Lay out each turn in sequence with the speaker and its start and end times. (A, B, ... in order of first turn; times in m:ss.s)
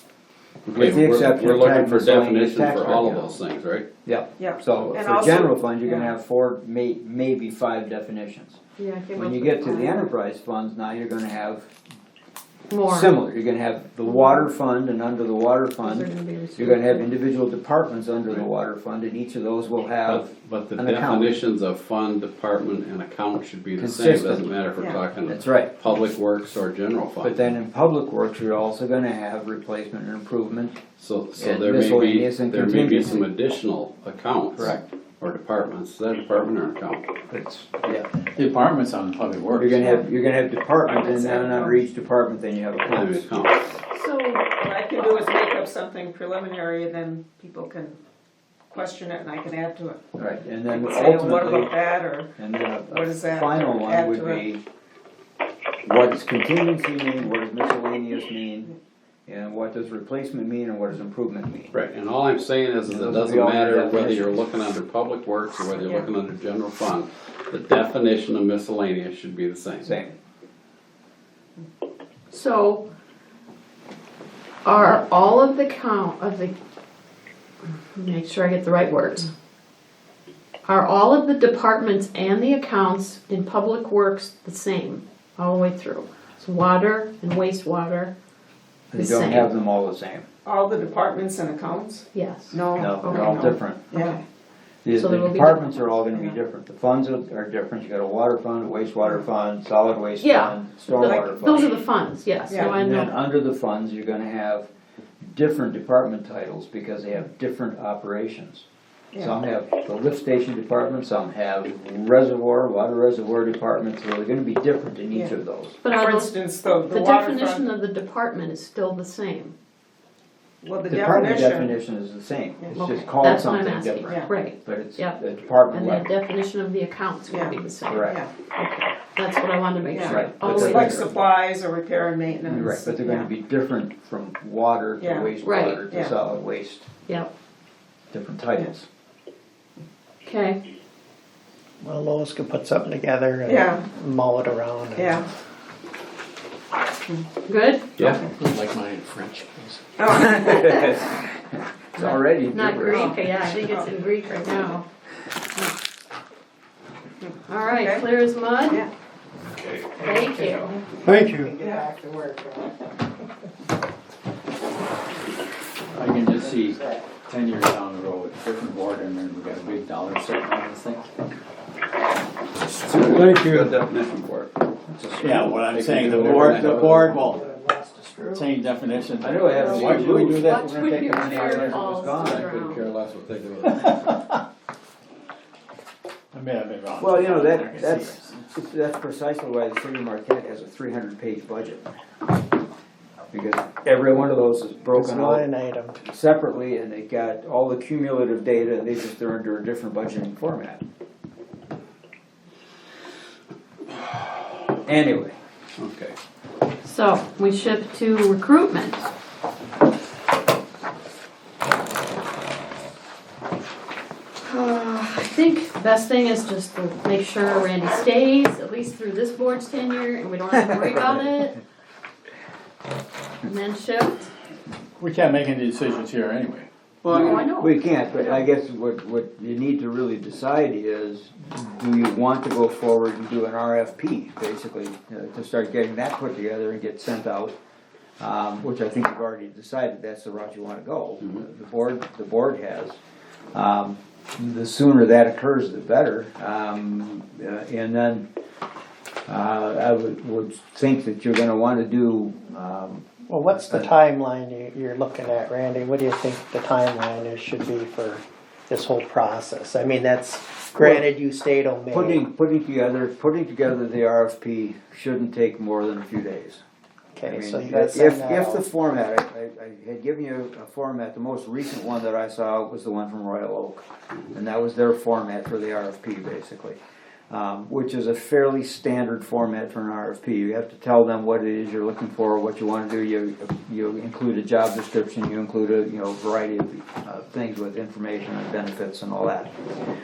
0:00.6-0:03.9 A
0:00.7-0:03.3 B
0:04.0-0:08.6 B
0:04.4-0:06.1 C
0:08.8-0:10.1 D
0:09.1-0:11.7 B
0:12.7-0:13.1 D
0:12.9-0:21.4 B
0:14.2-0:14.4 D
0:15.8-0:17.1 D
0:20.0-0:27.4 A
0:23.8-0:24.5 B
0:25.2-0:25.7 B
0:27.2-0:30.8 B
0:31.0-0:37.0 A
0:31.4-0:33.2 B
0:34.5-0:34.8 B
0:37.3-0:38.1 B
0:38.4-0:40.0 E
0:39.5-0:43.5 B
0:40.9-0:41.8 C
0:42.8-0:43.6 A
0:43.9-0:44.4 D
0:44.6-0:48.0 C
0:48.7-0:50.2 C
0:50.1-0:51.7 B
0:50.7-0:54.5 C
0:52.4-0:54.6 B
0:55.8-0:58.7 B
0:59.3-1:01.7 B
1:01.7-1:10.0 A
1:02.9-1:04.4 B
1:09.8-1:10.1 B
1:12.3-1:12.8 D
1:14.6-1:16.5 D
1:17.9-1:19.3 D
1:20.6-1:28.1 D
1:28.9-1:30.2 B
1:28.9-1:29.5 D
1:30.4-1:34.2 C
1:32.1-1:34.1 D
1:32.8-1:33.9 B
1:34.8-1:41.7 B
1:34.9-1:36.0 D
1:36.1-1:36.4 C
1:40.2-1:43.2 D
1:42.5-1:42.8 C
1:42.6-1:44.7 B
1:45.2-1:48.6 B
1:49.1-1:49.4 C
1:49.2-1:55.8 B
1:55.8-1:59.5 D
1:55.9-1:57.6 C
2:00.6-2:01.8 C
2:00.9-2:06.1 B
2:02.7-2:11.1 D
2:04.0-2:04.3 C
2:07.3-2:08.3 C
2:07.9-2:08.2 B
2:09.9-2:13.3 C
2:10.0-2:11.2 B
2:12.5-2:16.9 B
2:15.0-2:15.3 C
2:15.4-2:15.8 D
2:15.9-2:16.1 C
2:18.1-2:18.8 B
2:20.2-2:20.6 D
2:21.8-2:25.2 F
2:23.4-2:23.8 C
2:25.0-2:25.2 C
2:27.4-2:27.9 D
2:28.0-2:28.2 A
2:28.0-2:28.3 C
2:28.3-2:29.8 E
2:30.0-2:30.9 C
2:30.1-2:33.1 B
2:32.0-2:34.8 D
2:32.9-2:33.9 C
2:37.2-2:38.0 C
2:37.5-2:38.8 D
2:39.5-2:40.0 A
2:40.0-2:40.8 D
2:40.0-2:40.6 C
2:41.0-2:42.6 F
2:41.5-2:42.0 C
2:45.9-2:51.1 E
2:52.8-2:54.5 A
2:52.9-2:53.8 B
2:54.9-2:57.2 B
2:55.0-2:57.2 A
2:55.2-2:57.5 E
2:56.7-2:58.4 F
2:58.3-3:01.8 E
2:59.2-3:02.5 B
2:59.5-3:02.8 D
2:59.8-3:00.1 A
3:01.9-3:04.1 A
3:04.0-3:04.4 E
3:06.3-3:08.4 E
3:07.0-3:11.8 B
3:13.3-3:15.5 B
3:14.9-3:16.0 F
3:16.0-3:20.8 B
3:24.8-3:25.4 B
3:25.8-3:26.1 A
3:26.8-3:29.1 D
3:34.4-3:41.6 D
3:43.4-3:44.3 D
3:45.0-3:47.5 E
3:47.0-3:48.4 D
3:47.1-3:57.5 B
3:58.2-4:03.0 B
4:03.5-4:08.2 B
4:09.3-4:13.8 B
4:13.3-4:22.2 F
4:20.7-4:21.0 B
4:21.9-4:26.6 B
4:27.1-4:28.6 F
4:27.2-4:36.8 B
4:37.3-4:49.5 B